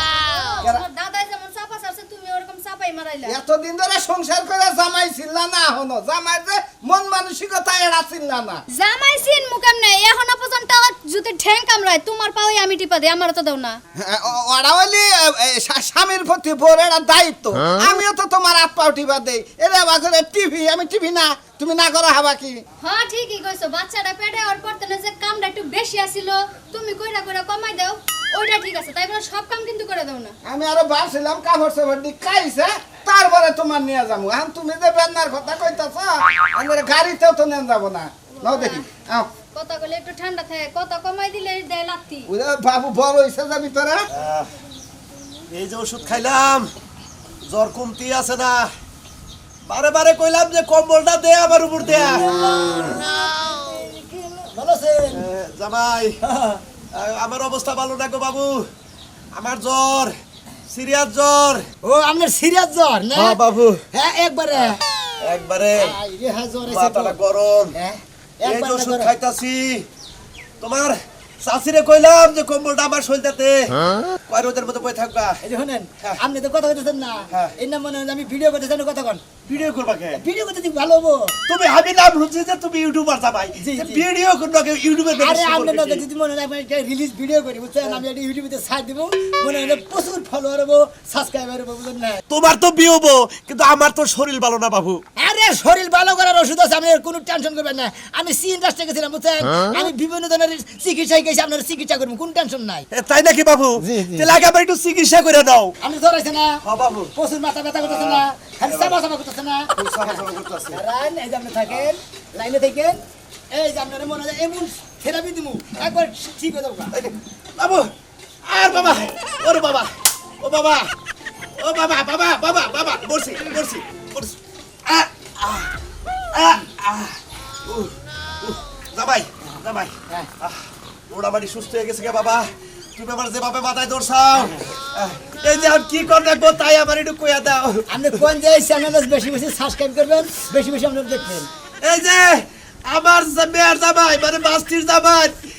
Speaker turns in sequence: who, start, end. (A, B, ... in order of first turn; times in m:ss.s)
0:00.2-0:03.3 A
0:03.2-0:08.6 B
0:08.7-0:13.8 A
0:14.0-0:22.6 B
0:22.8-0:30.3 A
0:30.4-0:39.3 B
0:38.4-0:38.9 A
0:39.5-0:42.3 A
0:42.3-0:44.0 B
0:44.1-0:44.5 C
0:45.5-0:46.7 C
0:47.4-0:48.7 C
0:49.7-0:52.2 C
0:51.9-0:55.2 D
0:55.1-0:56.2 C
0:56.2-0:56.6 D
0:56.9-0:58.7 C
0:59.3-1:00.1 C
1:00.7-1:01.6 C
1:01.8-1:03.4 D
1:03.1-1:03.8 C
1:03.9-1:04.8 D
1:05.2-1:05.9 C
1:05.8-1:07.2 D
1:06.7-1:07.7 C
1:07.7-1:09.1 D
1:08.4-1:09.8 C
1:10.6-1:15.4 C
1:15.4-1:19.2 D
1:19.5-1:20.2 C
1:20.2-1:21.4 D
1:21.5-1:26.0 C
1:23.6-1:24.0 D
1:25.2-1:32.2 D
1:32.3-1:35.0 C
1:35.2-1:42.9 D
1:42.9-1:45.7 C
1:43.9-1:44.2 D
1:45.8-1:46.6 D
1:46.6-1:47.1 C
1:47.1-1:53.0 D
1:47.8-1:49.0 C
1:49.8-1:50.8 C
1:53.5-1:57.0 D
1:56.9-1:57.9 C
1:58.4-1:59.9 C
2:00.4-2:00.9 C
2:01.6-2:04.3 C
2:04.8-2:05.7 C
2:06.3-2:17.8 C
2:17.9-2:21.5 D
2:21.8-2:25.3 C